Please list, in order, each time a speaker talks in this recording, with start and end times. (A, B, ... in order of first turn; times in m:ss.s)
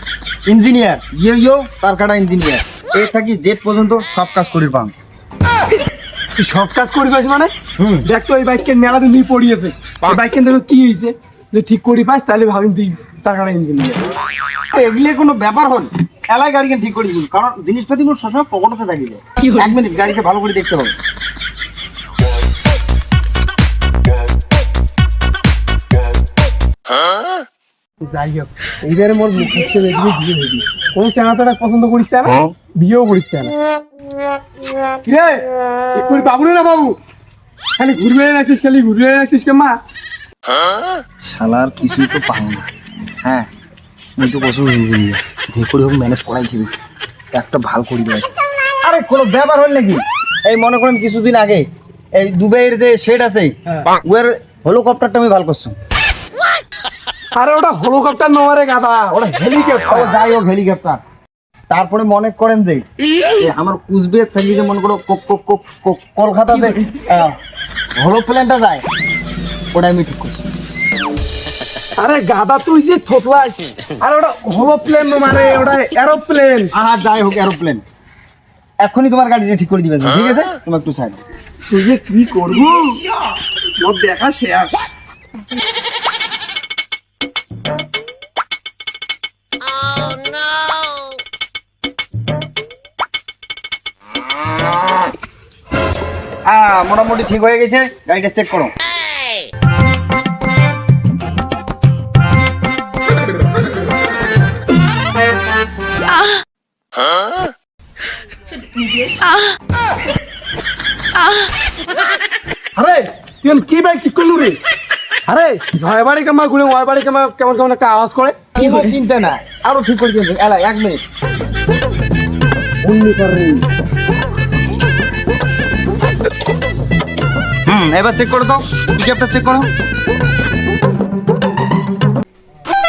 0:00.4-0:04.9 A
0:06.4-0:07.5 B
0:07.8-0:08.0 A
0:08.0-0:14.0 B
0:14.7-0:21.0 A
0:28.0-0:33.5 B
0:35.0-0:37.0 B
0:37.8-0:39.8 B
0:41.2-0:42.7 A
0:44.2-0:46.7 A
0:47.3-0:55.8 A
0:57.3-1:00.1 B
0:59.8-1:01.0 A
1:01.7-1:02.8 A
1:03.4-1:07.4 A
1:08.0-1:08.8 A
1:09.7-1:10.4 A
1:12.0-1:16.7 B
1:16.7-1:17.8 A
1:18.8-1:21.2 A
1:21.7-1:23.0 B
1:23.8-1:24.8 B
1:36.5-1:38.7 A
1:52.8-1:54.6 B
1:55.3-1:58.7 B
1:58.6-2:01.0 A
2:02.8-2:03.6 B
2:07.6-2:09.7 A